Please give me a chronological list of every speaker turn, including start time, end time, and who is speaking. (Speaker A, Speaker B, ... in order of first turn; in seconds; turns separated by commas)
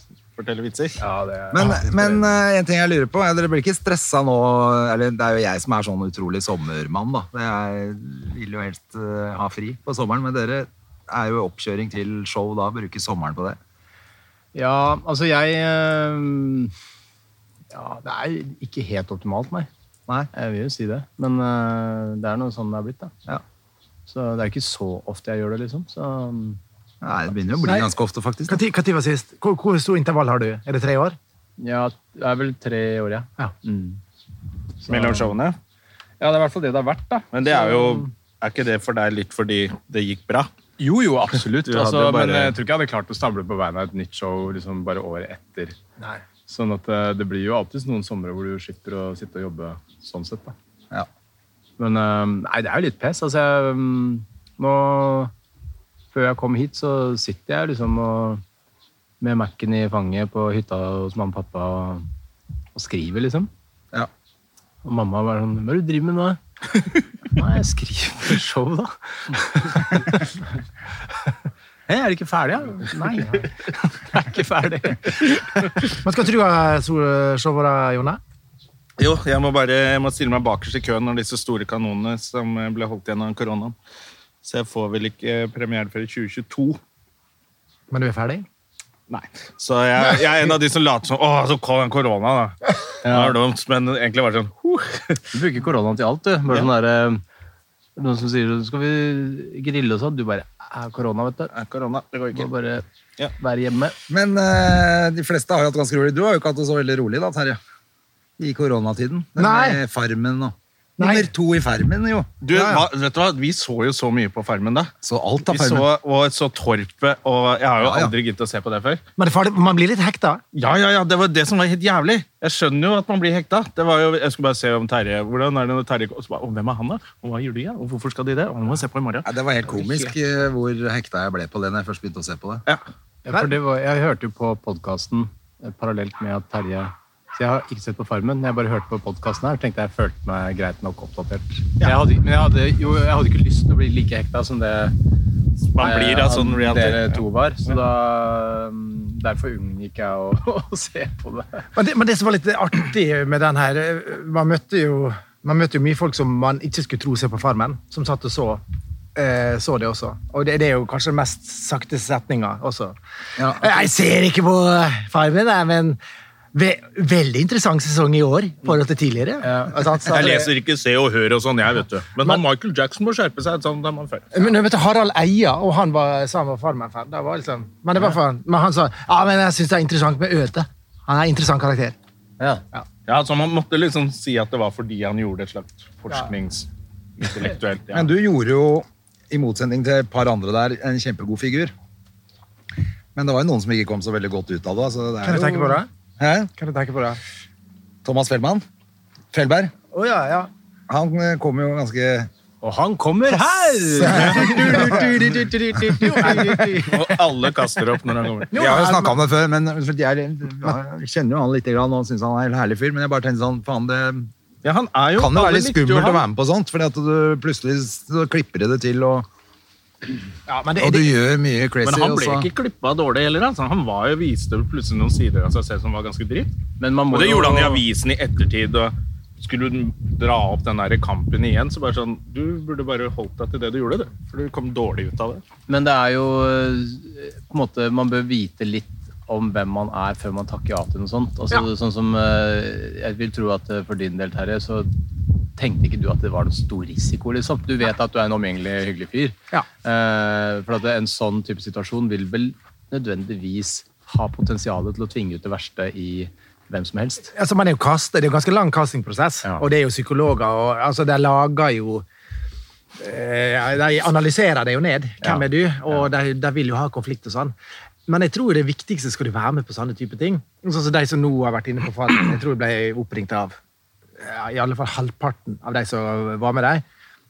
Speaker A: 0.4-1.0, Speaker B: 1.0-2.4, Speaker C: 1.5-13.6, Speaker B: 14.5-16.7, Speaker B: 17.7-19.7, Speaker B: 20.3-23.1, Speaker B: 24.1-26.6, Speaker C: 27.0-28.6, Speaker D: 27.6-27.9, Speaker D: 28.5-31.2, Speaker B: 31.6-34.0, Speaker B: 34.8-35.3, Speaker A: 34.9-35.6, Speaker B: 36.2-38.1, Speaker A: 37.3-40.5, Speaker B: 40.8-45.8, Speaker A: 41.7-42.6, Speaker B: 46.5-50.5, Speaker B: 51.8-55.3, Speaker B: 56.1-58.4, Speaker B: 59.2-62.0, Speaker B: 62.8-63.5, Speaker B: 64.8-70.2, Speaker B: 71.9-75.7, Speaker D: 75.9-78.2, Speaker A: 79.0-83.8, Speaker A: 84.4-86.8, Speaker D: 87.9-88.5, Speaker A: 89.1-95.2, Speaker D: 90.1-90.5, Speaker B: 93.0-93.4, Speaker B: 95.3-97.2, Speaker B: 98.0-101.5, Speaker A: 101.5-102.5, Speaker B: 102.3-102.8, Speaker B: 103.4-104.0, Speaker C: 104.1-107.6, Speaker C: 108.4-112.3, Speaker D: 109.4-109.8, Speaker D: 111.0-111.3, Speaker A: 112.4-114.9, Speaker D: 112.5-112.8, Speaker C: 115.0-115.9, Speaker A: 115.4-119.0, Speaker C: 117.8-118.1, Speaker D: 119.2-120.4, Speaker A: 120.5-129.3, Speaker C: 129.2-132.6, Speaker B: 133.2-145.0, Speaker A: 145.7-147.2, Speaker B: 145.8-151.7, Speaker D: 151.7-158.6, Speaker D: 159.2-163.0, Speaker C: 163.4-163.7, Speaker D: 163.5-166.0, Speaker D: 166.5-170.5, Speaker B: 169.4-169.7, Speaker A: 170.1-174.5, Speaker D: 174.3-182.0, Speaker A: 183.1-186.7, Speaker A: 187.2-188.1, Speaker C: 187.9-191.7, Speaker C: 193.2-196.5, Speaker D: 195.2-195.9, Speaker D: 196.6-197.2, Speaker C: 198.0-198.7, Speaker C: 199.3-199.7, Speaker D: 199.9-200.5, Speaker C: 200.9-202.3, Speaker B: 202.6-206.9, Speaker D: 204.0-205.2, Speaker C: 204.1-205.1, Speaker D: 205.9-207.0, Speaker A: 206.9-208.5, Speaker D: 208.5-209.2, Speaker C: 208.5-214.3, Speaker A: 214.6-216.2, Speaker C: 215.2-219.3, Speaker D: 220.5-221.1, Speaker C: 220.8-222.5, Speaker A: 221.8-226.5, Speaker B: 226.8-227.8, Speaker A: 227.1-235.4, Speaker B: 235.7-257.3, Speaker D: 257.3-262.1, Speaker D: 263.0-267.5, Speaker B: 265.2-266.0, Speaker D: 268.1-273.6, Speaker D: 274.2-276.8